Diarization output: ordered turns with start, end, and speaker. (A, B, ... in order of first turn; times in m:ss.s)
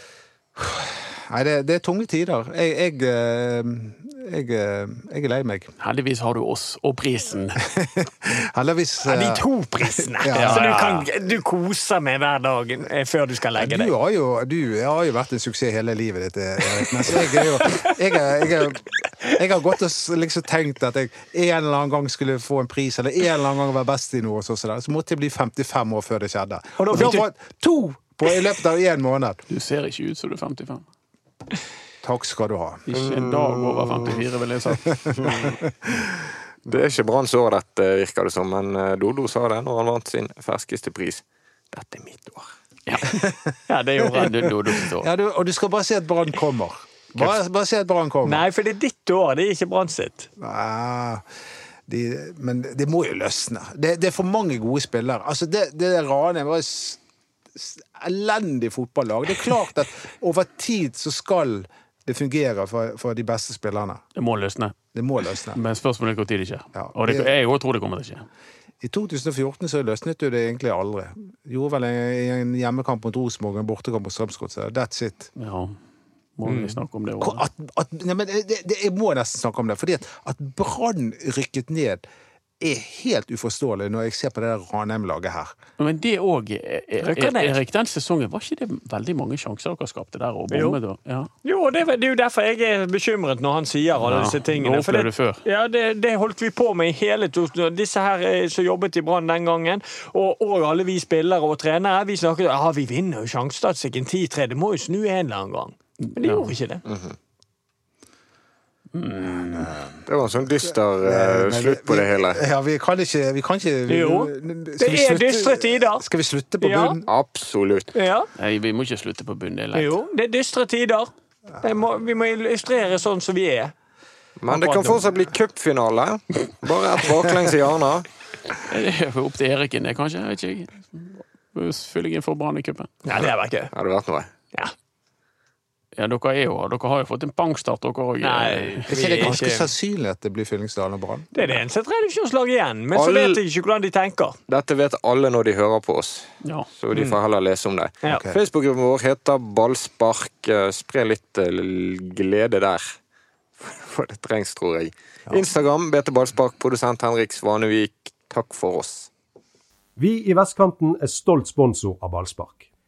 0:00.6-0:05.7 A
0:05.8-0:07.6 B
0:07.7-0:10.7 A
0:09.0-0:13.9 C
0:10.3-0:11.1 B
0:13.5-0:29.4 A
0:17.1-0:17.9 C
0:26.8-0:27.2 C
0:29.5-0:30.8 B
0:32.0-0:32.8 A
0:32.9-0:34.9 B
0:32.9-0:34.2 D
0:35.1-0:36.2 A
0:35.2-0:35.6 D
0:36.6-0:42.5 D
0:42.9-0:43.2 B
0:43.1-0:43.5 A
0:43.7-0:44.5 C
0:44.1-0:45.1 B
0:45.0-0:48.4 A
0:48.2-0:50.3 C
0:50.4-0:51.2 A
0:51.9-0:57.0 A
0:57.5-1:04.0 A
1:04.1-1:04.7 B
1:04.9-1:05.6 A
1:05.5-1:08.3 B
1:06.8-1:07.3 A
1:08.8-1:15.3 A
1:15.4-1:15.8 B
1:16.4-1:17.4 B
1:16.4-1:16.8 C
1:17.2-1:22.0 A
1:22.6-1:25.5 A
1:25.8-1:31.3 B
1:27.0-1:27.6 C
1:30.5-1:30.8 C
1:31.4-1:46.8 C
1:34.0-1:35.4 B
1:46.0-1:46.5 B
1:46.8-1:47.2 D
1:48.9-1:49.7 B
1:49.3-1:50.0 A
1:50.0-1:52.4 D
1:50.6-1:57.1 A
1:53.9-1:56.0 C
1:56.6-1:57.0 C
1:57.1-1:57.9 D
1:57.9-1:58.3 C
1:58.4-2:00.0 B
1:59.7-2:01.1 C
2:01.6-2:03.7 C
2:04.4-2:08.1 D
2:04.5-2:05.0 C
2:08.6-2:12.9 B
2:13.0-2:13.7 C
2:13.2-2:14.3 D
2:16.0-2:19.3 B
2:18.2-2:19.7 C
2:18.9-2:21.3 A
2:21.3-2:24.4 C
2:22.9-2:23.4 D
2:24.5-2:32.9 D
2:26.9-2:27.2 C
2:28.1-2:28.4 A
2:33.6-2:39.1 D
2:40.0-2:42.7 E